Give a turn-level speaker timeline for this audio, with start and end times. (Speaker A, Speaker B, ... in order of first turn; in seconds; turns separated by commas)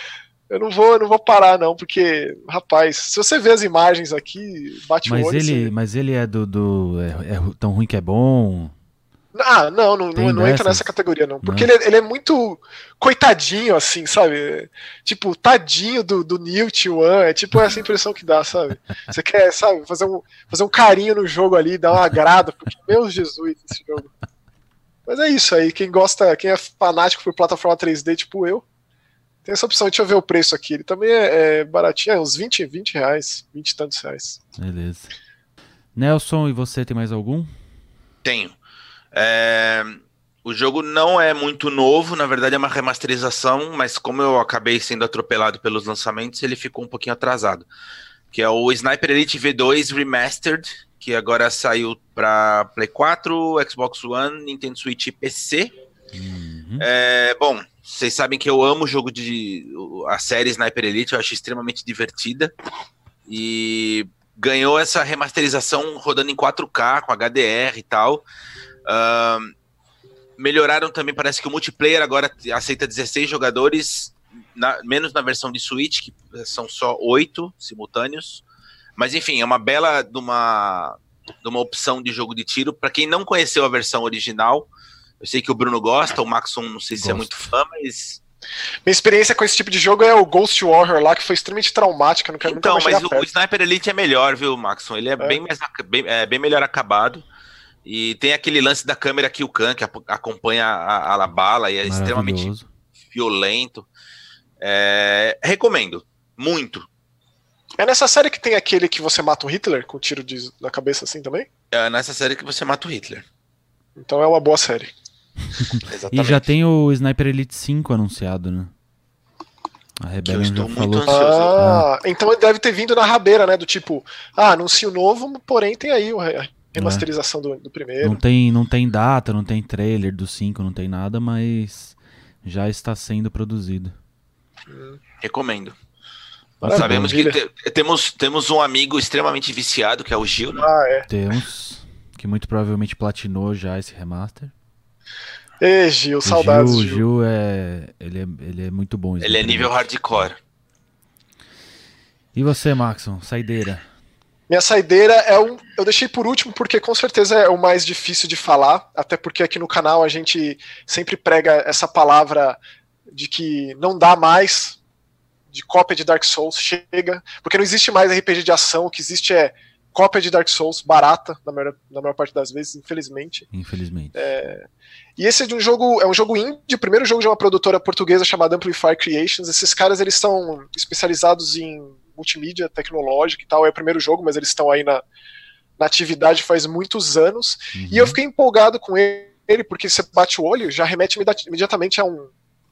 Speaker A: 0.5-5.7, Speaker B: 5.0-8.7, Speaker A: 9.3-24.1, Speaker B: 10.2-10.8, Speaker B: 11.4-11.7, Speaker A: 25.1-28.6, Speaker A: 29.5-34.4, Speaker B: 34.6-35.1, Speaker B: 36.0-37.5, Speaker C: 38.2-38.6, Speaker C: 39.1-47.7, Speaker C: 48.3-55.7, Speaker B: 56.1-56.9, Speaker C: 56.8-62.5, Speaker C: 63.3-68.2, Speaker C: 68.9-69.5, Speaker C: 70.4-78.5, Speaker C: 79.0-84.7, Speaker C: 85.2-88.2, Speaker B: 87.0-87.5, Speaker A: 88.9-93.3, Speaker C: 92.4-97.2, Speaker C: 97.8-102.5, Speaker B: 101.9-102.7, Speaker C: 103.1-103.9, Speaker C: 104.6-106.9, Speaker A: 107.8-111.5, Speaker C: 111.7-113.2, Speaker A: 114.0-114.9, Speaker C: 115.9-116.5, Speaker B: 116.1-118.7, Speaker B: 120.0-121.9, Speaker C: 120.2-121.6, Speaker A: 121.1-128.2, Speaker B: 126.8-127.1, Speaker B: 128.0-133.9, Speaker A: 134.7-135.0, Speaker C: 135.2-135.8, Speaker B: 136.6-137.1, Speaker A: 136.6-137.4, Speaker C: 136.7-140.7, Speaker A: 140.6-141.1, Speaker B: 141.1-144.5, Speaker A: 145.6-147.0, Speaker B: 146.2-150.3, Speaker C: 149.2-150.4, Speaker B: 152.3-153.9, Speaker A: 154.5-162.6, Speaker A: 163.1-164.8, Speaker A: 165.5-173.5, Speaker B: 173.5-174.1, Speaker A: 174.1-174.7, Speaker A: 175.2-185.0, Speaker A: 185.8-192.3, Speaker B: 187.7-188.2